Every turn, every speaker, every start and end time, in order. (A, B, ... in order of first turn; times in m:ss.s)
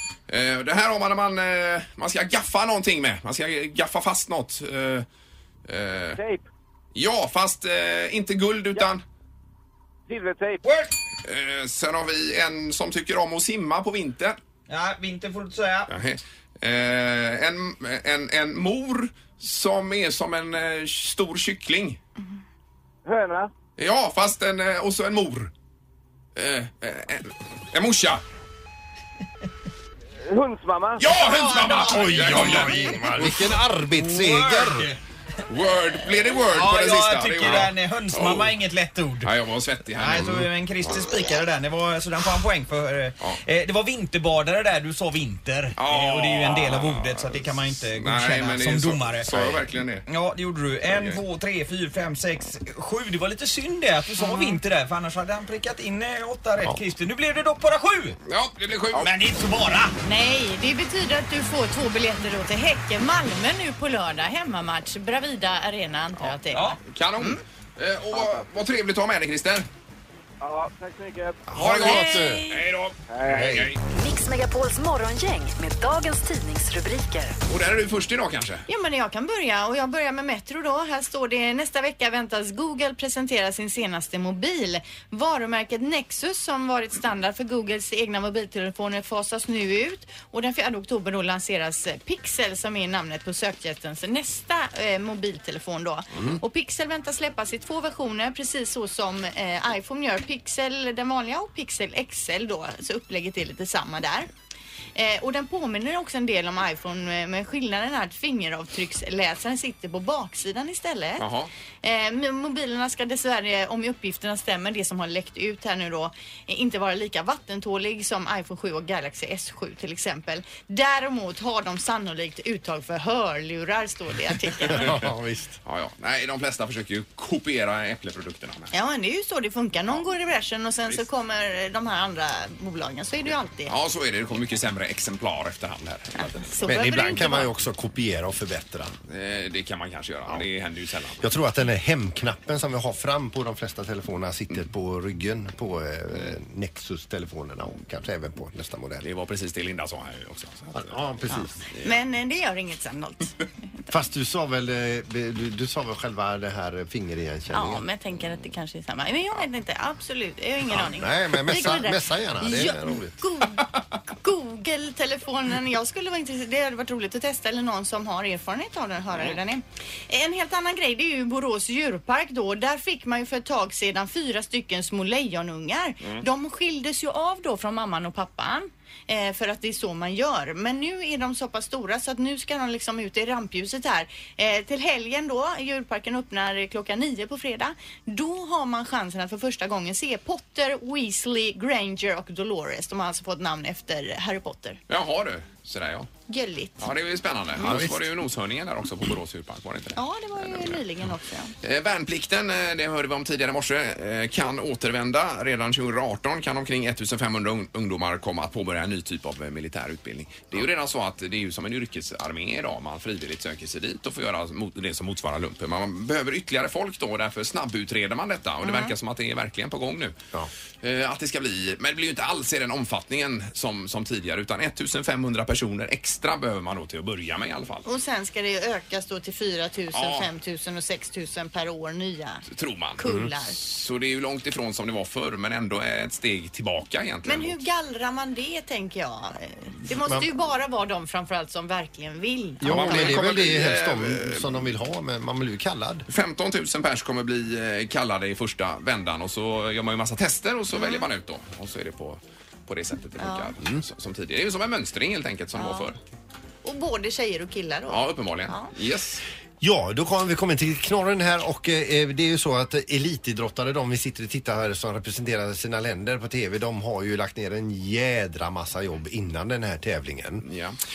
0:00.3-0:05.1 A
0:05.7-0:06.2 A
0:06.2-0:06.4 B
0:07.0-0:09.0 A
0:10.1-0:10.6 B
0:10.6-0:10.9 C
0:11.2-0:14.4 A
0:14.7-0:15.9 C
0:15.9-0:22.0 A
0:23.1-0:23.5 B
0:23.8-0:25.5 A
0:26.4-0:28.2 A
0:30.3-0:31.0 B
0:31.0-0:33.5 A
0:31.6-0:34.9 D
0:32.2-0:32.7 C
0:33.9-0:35.0 C
0:35.5-0:38.6 A
0:36.4-0:39.3 C
0:39.2-0:40.4 A
0:39.9-0:58.2 C
0:45.8-0:50.0 A
0:50.9-0:51.2 A
0:54.2-0:54.6 E
0:58.3-0:59.1 A
0:58.9-1:00.0 C
1:00.0-1:06.8 E
1:06.5-1:06.8 C
1:06.9-1:09.7 A
1:08.2-1:08.4 B
1:10.4-1:11.4 B
1:11.5-1:12.4 D
1:11.5-1:13.8 A
1:11.8-1:12.6 E
1:13.1-1:13.5 B
1:13.3-1:13.7 D
1:13.9-1:17.4 F
1:17.5-1:18.6 A
1:18.7-1:44.3 E
1:45.0-1:51.3 E
1:51.2-1:51.5 A
1:51.8-2:04.9 E
2:04.7-2:05.6 D
2:05.6-2:08.7 A
2:08.7-2:13.7 E
2:13.7-2:16.5 A
2:16.4-2:17.5 E
2:16.7-2:19.0 D
2:19.1-2:21.2 A
2:21.2-2:29.1 D
2:29.0-2:31.0 A
2:30.7-2:31.6 D
2:31.3-2:33.4 E
2:33.9-2:37.8 D
2:37.5-3:14.8 E
2:40.7-2:43.2 D
3:14.9-3:16.1 A
3:16.3-3:16.9 E
3:16.8-3:20.8 A
3:17.6-3:17.9 E
3:17.6-3:18.0 D
3:20.0-3:21.5 E
3:21.6-3:40.2 A
3:38.6-3:38.9 E
3:40.8-3:47.9 A
3:47.8-3:52.4 E
3:49.9-3:50.3 A
3:52.5-3:57.6 A
3:53.0-3:53.6 E
3:53.0-3:53.3 D
3:57.2-4:03.2 E
4:02.6-4:06.1 D
4:02.6-4:04.5 A
4:06.1-4:16.0 A
4:10.7-4:11.1 E
4:13.2-4:13.5 E
4:15.6-4:15.9 E
4:16.6-4:18.7 E
4:17.9-4:19.2 A
4:19.6-4:30.5 D
4:30.4-4:30.8 A